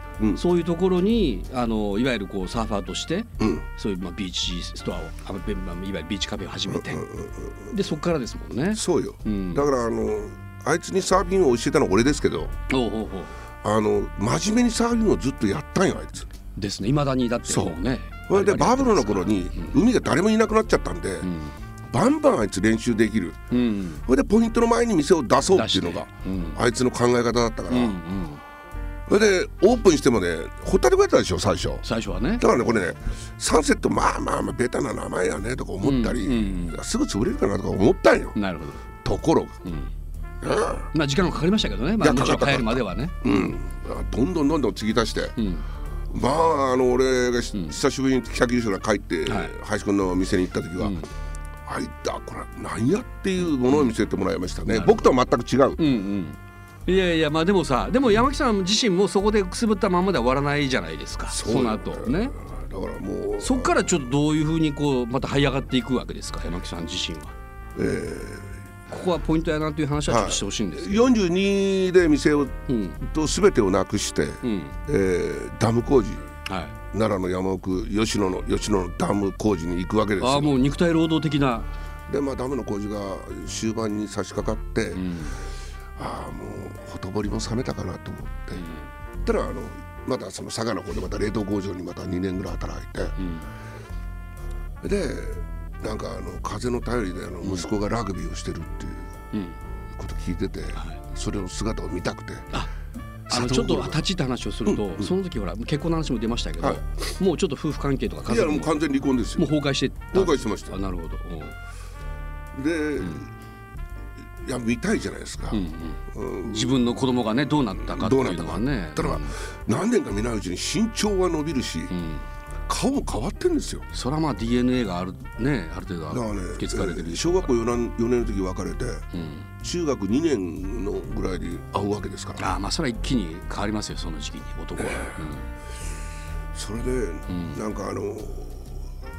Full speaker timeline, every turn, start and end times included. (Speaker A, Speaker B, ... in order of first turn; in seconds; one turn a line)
Speaker A: 0.3-7.1
Speaker B: 3.4-3.6
Speaker B: 6.7-7.7
Speaker A: 7.7-9.7
Speaker B: 8.7-12.6
Speaker A: 12.7-13.3
Speaker B: 13.6-16.3
Speaker A: 16.6-19.8
Speaker B: 17.4-21.3
Speaker A: 21.2-21.6
Speaker B: 21.9-23.4
Speaker A: 23.5-24.0
Speaker B: 24.1-28.0
Speaker A: 25.5-26.6
Speaker A: 27.7-28.4
Speaker B: 29.1-31.8
Speaker A: 31.8-32.5
Speaker B: 32.4-38.4
Speaker A: 35.8-36.8
Speaker A: 38.4-38.8
Speaker B: 39.0-39.6
Speaker A: 39.6-39.9
Speaker B: 40.4-40.9
Speaker A: 40.9-43.5
Speaker B: 42.0-45.4
Speaker A: 45.4-45.6
Speaker B: 46.1-51.0
Speaker A: 49.3-49.5
Speaker A: 50.8-51.1
Speaker B: 51.7-55.8
Speaker A: 54.7-55.1
Speaker A: 55.8-62.4
Speaker B: 61.3-63.9
Speaker A: 63.4-67.3
Speaker B: 67.8-68.5
Speaker A: 68.9-71.1
Speaker B: 70.1-76.3
Speaker A: 72.7-73.0
Speaker A: 74.4-74.8
Speaker A: 76.5-76.8
Speaker B: 76.9-80.6
Speaker A: 80.2-81.7
Speaker B: 82.1-85.1
Speaker A: 84.9-85.4
Speaker B: 86.0-88.7
Speaker A: 88.5-88.9
Speaker B: 89.2-93.2
Speaker A: 93.2-93.5
Speaker B: 94.8-99.1
Speaker A: 99.3-99.6
Speaker B: 100.0-102.5
Speaker B: 103.3-104.0
Speaker A: 103.3-108.8
Speaker B: 104.7-105.1
Speaker B: 106.6-107.0
Speaker B: 108.3-109.5
Speaker A: 109.4-111.5
Speaker B: 110.1-110.8
Speaker B: 112.5-113.3
Speaker B: 114.4-116.8
Speaker A: 115.5-119.4
Speaker B: 117.8-121.9
Speaker A: 121.9-122.2
Speaker B: 122.7-123.9
Speaker A: 123.9-127.5
Speaker B: 126.1-129.1
Speaker A: 129.1-129.5
Speaker B: 129.6-132.4
Speaker A: 132.4-135.5
Speaker B: 134.8-135.2
Speaker B: 136.5-138.8
Speaker A: 137.3-137.6